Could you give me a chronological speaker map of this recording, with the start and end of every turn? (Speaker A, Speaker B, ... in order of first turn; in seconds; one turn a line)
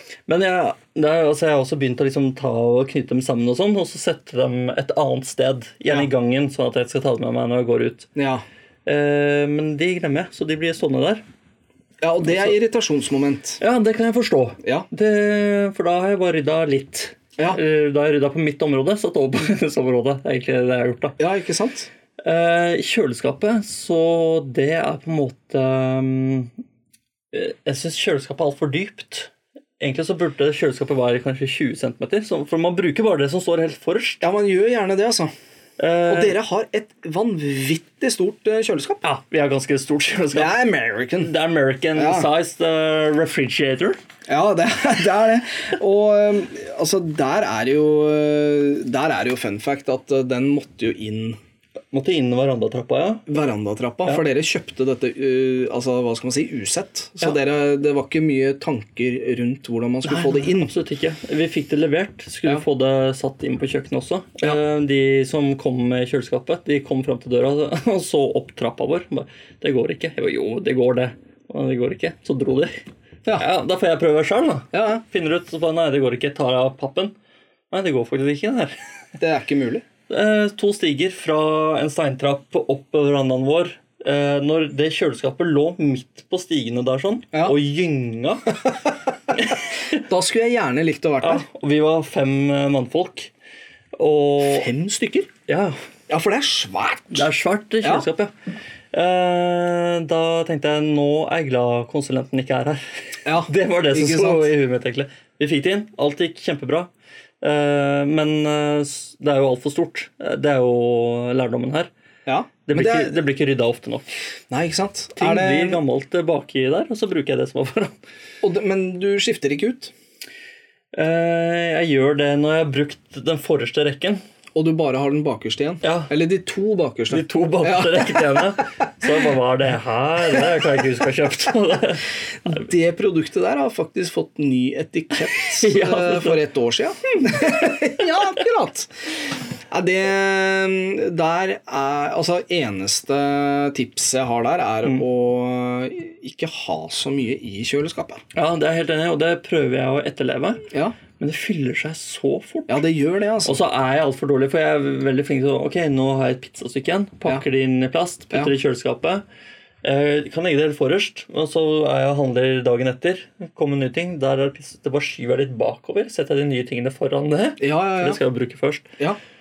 Speaker A: 0.3-8.1
Speaker B: 8.2-8.4
Speaker A: 8.8-11.2
Speaker B: 12.0-13.6
Speaker A: 12.3-12.5
Speaker A: 13.6-21.2
Speaker B: 21.2-21.9
Speaker A: 22.2-26.5
Speaker A: 27.3-34.2
Speaker B: 34.2-35.3
Speaker A: 35.8-36.4
Speaker B: 36.1-39.0
Speaker A: 39.0-40.5
Speaker B: 40.3-41.3
Speaker A: 41.2-44.0
Speaker B: 42.0-42.3
Speaker B: 44.3-51.4
Speaker A: 51.9-53.3
Speaker B: 53.3-60.7
Speaker A: 60.0-72.7
Speaker A: 73.4-77.1
Speaker B: 74.7-75.0
Speaker A: 77.7-78.7
Speaker B: 79.2-79.8
Speaker A: 80.1-88.8
Speaker A: 89.3-90.0
Speaker B: 89.9-91.5
Speaker A: 91.2-93.3
Speaker A: 94.0-94.7
Speaker B: 94.4-95.3
Speaker A: 95.5-95.8
Speaker B: 96.1-97.3
Speaker A: 97.1-98.3
Speaker A: 98.9-102.8
Speaker B: 103.2-104.5
Speaker A: 103.4-111.9
Speaker B: 112.2-113.1
Speaker A: 112.7-114.1
Speaker B: 114.5-115.8
Speaker A: 115.2-117.9
Speaker B: 118.4-119.9
Speaker A: 120.9-124.2
Speaker B: 124.5-128.6
Speaker A: 125.8-126.1
Speaker A: 127.1-132.7
Speaker B: 132.4-138.9
Speaker A: 135.4-136.4
Speaker B: 139.7-148.2
Speaker A: 148.3-152.8
Speaker B: 150.7-150.9
Speaker B: 152.7-153.6
Speaker A: 153.4-159.2
Speaker A: 159.8-168.9
Speaker B: 167.6-168.2